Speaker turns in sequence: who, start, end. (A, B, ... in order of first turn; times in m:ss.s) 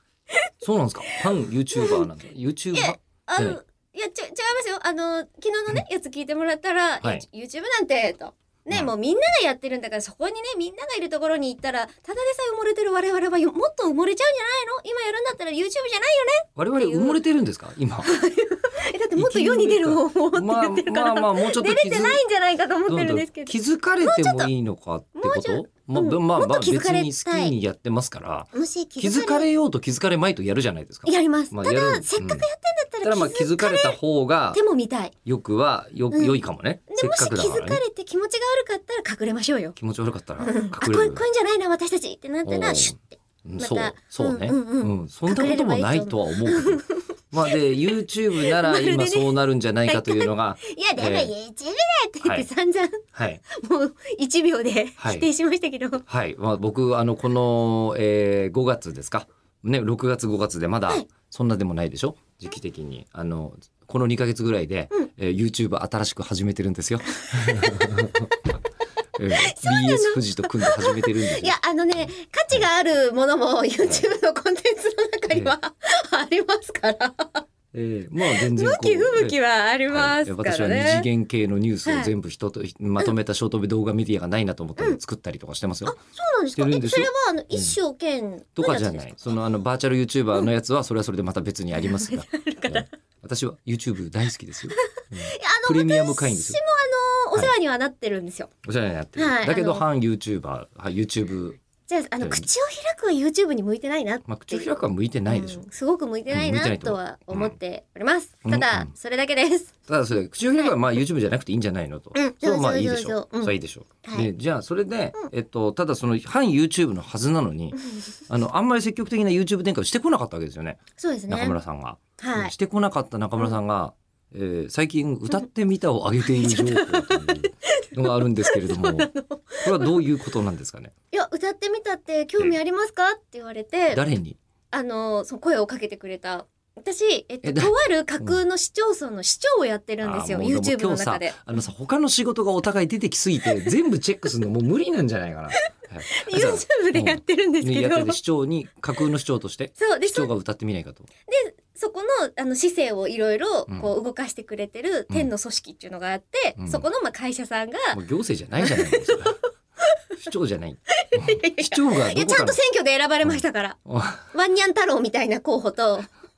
0:00.6-0:03.6 A
0:01.7-0:02.0 B
0:02.7-0:17.2 B
0:16.6-0:18.2 A
0:18.0-0:24.5 B
0:19.2-0:22.2 A
0:22.9-0:32.4 A
0:25.2-0:27.5 B
0:28.5-0:29.5 B
0:31.0-0:34.0 B
0:33.0-0:34.6 A
0:34.5-0:35.1 B
0:35.2-0:37.8 A
0:36.1-0:36.4 B
0:36.9-0:39.8 B
0:39.8-0:41.2 A
0:40.4-0:49.3 B
0:42.4-0:51.3 A
0:49.8-0:56.0 B
0:53.1-0:53.4 A
0:55.0-0:55.3 A
0:56.1-1:08.3 A
1:07.4-1:08.2 B
1:09.2-1:12.6 A
1:09.4-1:17.4 B
1:13.8-1:14.1 A
1:15.3-1:15.5 A
1:17.7-1:26.0 A
1:18.2-1:21.1 B
1:21.8-1:22.1 B
1:26.0-1:29.4 B
1:26.5-1:27.8 A
1:28.5-1:36.6 A
1:31.8-1:32.9 B
1:34.7-1:38.5 B
1:38.6-1:41.6 A
1:39.2-1:39.8 B
1:41.9-1:44.7 B
1:42.2-1:42.5 A
1:44.2-1:45.6 A
1:45.3-1:49.7 B
1:46.3-1:47.6 A
1:48.4-1:48.9 A
1:49.9-2:09.1 A
1:52.1-1:54.3 B
2:01.0-2:01.6 B
2:02.2-2:02.5 B
2:06.4-2:10.0 B
2:09.6-2:10.9 A
2:11.1-2:14.0 B
2:13.9-2:14.4 A
2:14.7-2:21.4 B
2:17.4-2:18.4 A
2:20.0-2:31.1 A
2:25.6-2:28.2 B
2:29.8-2:30.3 B
2:31.3-2:38.0 B
2:36.6-2:36.9 A
2:37.9-2:39.4 A
2:38.6-2:39.2 B
2:40.2-2:42.6 A
2:41.0-2:43.8 B
2:43.2-2:44.3 A
2:44.3-2:46.1 B